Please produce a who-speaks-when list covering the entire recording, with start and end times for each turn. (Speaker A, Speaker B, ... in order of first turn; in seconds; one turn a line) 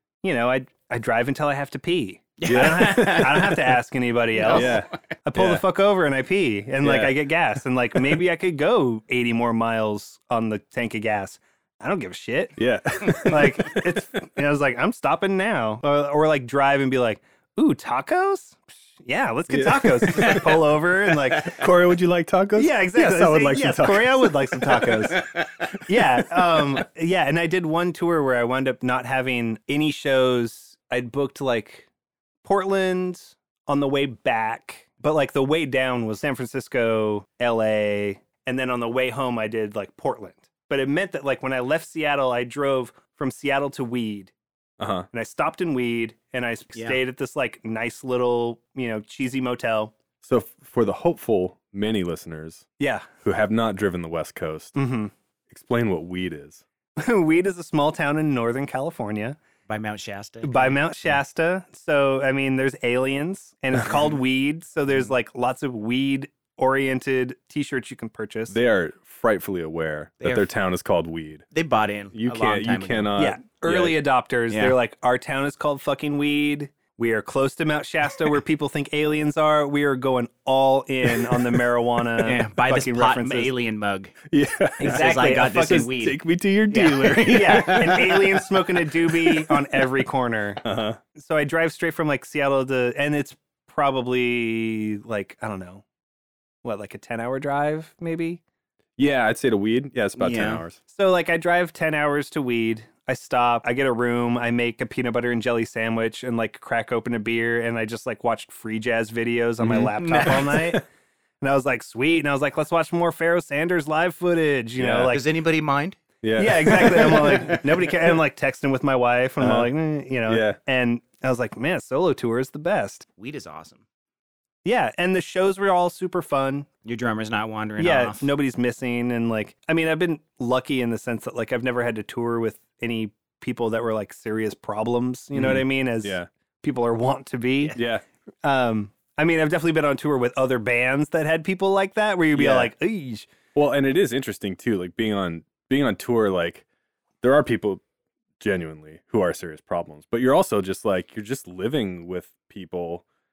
Speaker A: 0.2-12.6
Speaker B: 2.4-3.6
Speaker C: 2.5-3.2
Speaker B: 4.3-5.0
Speaker C: 4.5-5.6
Speaker C: 6.8-7.3
Speaker C: 12.6-14.0
Speaker A: 13.1-21.6
Speaker C: 19.5-20.5
Speaker C: 21.4-25.1
Speaker A: 22.6-25.3
Speaker A: 25.8-31.9
Speaker A: 32.4-44.3
Speaker C: 44.8-45.1
Speaker A: 45.1-49.9
Speaker B: 46.7-47.0
Speaker C: 50.2-52.6
Speaker A: 52.8-53.1
Speaker C: 53.2-54.8
Speaker A: 54.8-55.1
Speaker C: 55.5-56.6
Speaker A: 57.0-59.4
Speaker B: 59.7-60.8
Speaker A: 60.4-68.5
Speaker C: 68.5-71.5
Speaker B: 70.2-70.5
Speaker B: 71.5-73.1
Speaker C: 72.1-74.0
Speaker A: 73.2-83.5
Speaker B: 74.5-74.8
Speaker B: 82.2-84.2
Speaker C: 84.3-88.2
Speaker A: 84.8-85.9
Speaker B: 84.8-88.2
Speaker A: 87.0-90.6
Speaker C: 89.2-89.6
Speaker C: 90.6-91.0
Speaker A: 91.2-95.8
Speaker A: 96.6-98.4
Speaker C: 99.0-100.8
Speaker B: 100.2-100.6
Speaker A: 100.9-110.8
Speaker C: 109.6-109.9
Speaker B: 109.9-110.8
Speaker A: 111.4-115.2
Speaker C: 114.8-115.2
Speaker B: 115.1-116.0
Speaker C: 116.2-117.6
Speaker A: 116.3-123.1
Speaker B: 116.7-117.6
Speaker C: 119.4-119.7
Speaker C: 120.2-120.6
Speaker B: 123.2-123.8
Speaker A: 124.6-126.7
Speaker B: 126.8-128.3
Speaker A: 127.8-137.8
Speaker C: 135.3-136.3
Speaker C: 137.8-138.0
Speaker A: 138.4-143.3
Speaker C: 142.3-142.7
Speaker C: 143.5-146.6
Speaker C: 147.2-147.8
Speaker C: 148.4-153.0